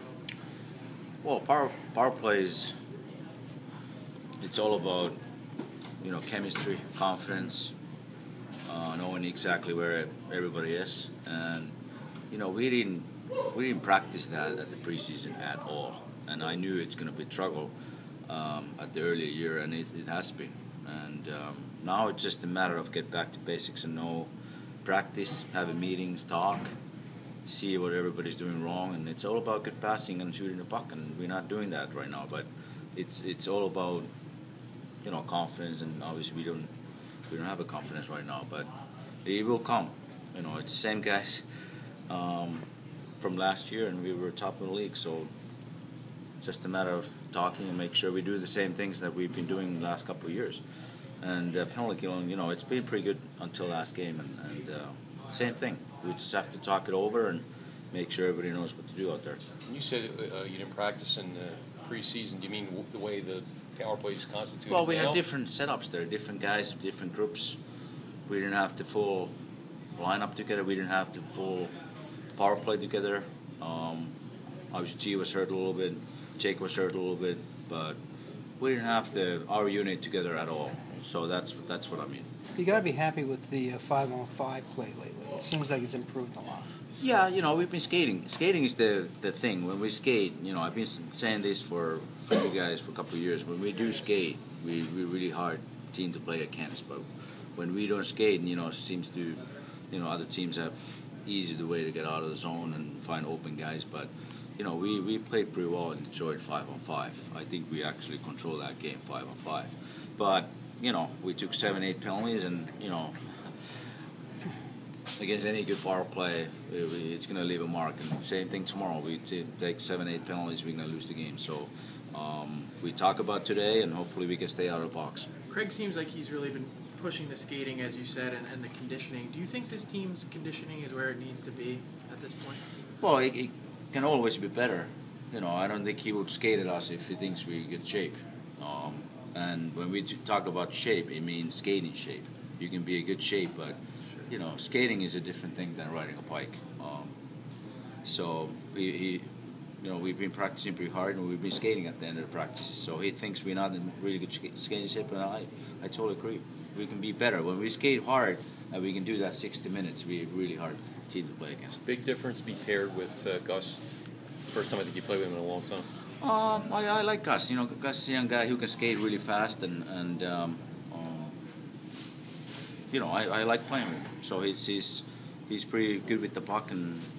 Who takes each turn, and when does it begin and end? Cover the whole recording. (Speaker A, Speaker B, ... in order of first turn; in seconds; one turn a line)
Speaker A: 1.2-2.7
Speaker A: 4.4-5.2
Speaker A: 6.0-7.7
Speaker A: 8.7-11.7
Speaker A: 12.3-17.7
Speaker A: 18.3-24.3
Speaker A: 24.8-26.7
Speaker A: 27.4-34.1
Speaker A: 35.0-36.7
Speaker A: 37.3-38.7
Speaker A: 39.2-41.4
Speaker A: 42.1-42.7
Speaker A: 43.2-45.3
Speaker A: 46.4-50.6
Speaker A: 51.2-59.4
Speaker B: 59.7-65.2
Speaker A: 64.7-67.6
Speaker A: 68.3-69.3
Speaker A: 70.0-71.7
Speaker A: 72.4-74.1
Speaker A: 74.7-78.0
Speaker A: 78.6-82.2
Speaker C: 82.6-86.7
Speaker A: 87.0-97.0
Speaker A: 97.6-113.2
Speaker A: 115.2-125.3
Speaker D: 125.5-132.6
Speaker A: 133.0-143.8
Speaker A: 144.3-147.2
Speaker A: 148.1-149.2
Speaker A: 149.8-161.8
Speaker B: 161.8-163.8
Speaker B: 164.5-165.9
Speaker A: 166.2-171.3
Speaker A: 172.9-177.1